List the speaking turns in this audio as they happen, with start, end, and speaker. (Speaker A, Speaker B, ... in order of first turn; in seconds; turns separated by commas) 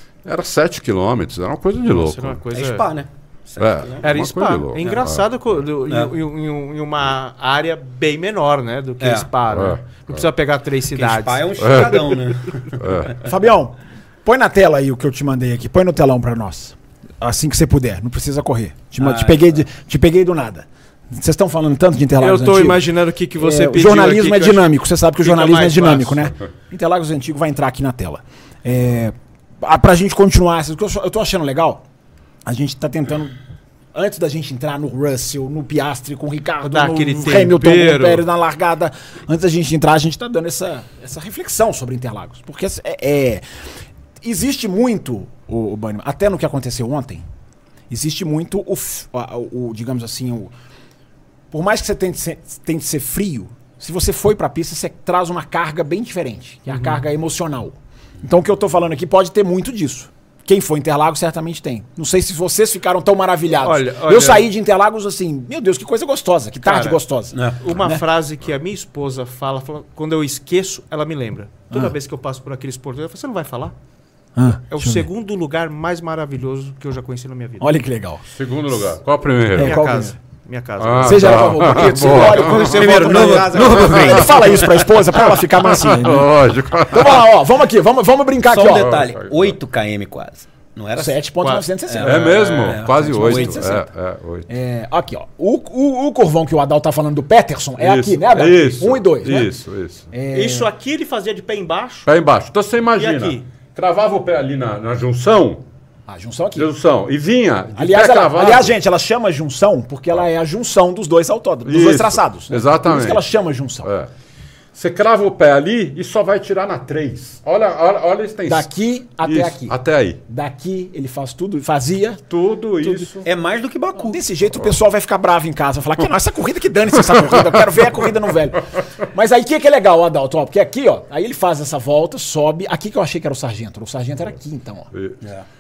Speaker A: 0.2-2.4, Speaker B: 1.9-2.9, Speaker C: 2.5-4.0, Speaker A: 3.6-5.3, Speaker B: 4.0-11.6, Speaker C: 9.0-9.3, Speaker A: 9.5-10.2, Speaker C: 10.9-13.3, Speaker A: 11.6-13.1, Speaker D: 13.2-31.8, Speaker C: 19.0-19.6, Speaker B: 22.2-26.3, Speaker D: 32.5-33.4, Speaker D: 33.9-43.4, Speaker B: 36.6-38.3, Speaker D: 44.2-47.2, Speaker D: 47.9-50.5, Speaker D: 51.5-68.0, Speaker B: 56.7-57.0, Speaker B: 63.6-64.5, Speaker B: 66.6-67.0, Speaker B: 67.6-73.8, Speaker D: 74.4-75.1, Speaker B: 74.7-77.8, Speaker D: 77.6-78.2, Speaker A: 78.3-79.9, Speaker D: 79.5-80.2, Speaker B: 79.6-83.9, Speaker A: 80.8-87.3, Speaker D: 81.0-89.0, Speaker C: 82.3-84.7, Speaker C: 88.5-91.2, Speaker A: 88.6-89.6, Speaker D: 91.0-93.9, Speaker B: 91.4-91.7, Speaker C: 91.9-93.6, Speaker A: 92.0-94.5, Speaker D: 94.5-99.5, Speaker A: 97.8-100.1, Speaker D: 100.1-100.7, Speaker B: 100.3-102.1, Speaker A: 102.1-105.6, Speaker B: 103.0-103.5, Speaker D: 106.1-106.7, Speaker A: 106.6-108.8, Speaker D: 107.8-113.9, Speaker A: 111.7-113.2, Speaker A: 113.8-114.1, Speaker A: 114.7-118.7, Speaker D: 118.5-119.8, Speaker A: 119.2-120.2, Speaker D: 120.3-122.2, Speaker A: 122.3-123.3, Speaker D: 122.8-123.2, Speaker C: 123.2-124.2, Speaker D: 124.0-134.9, Speaker A: 127.3-127.6, Speaker A: 134.9-135.2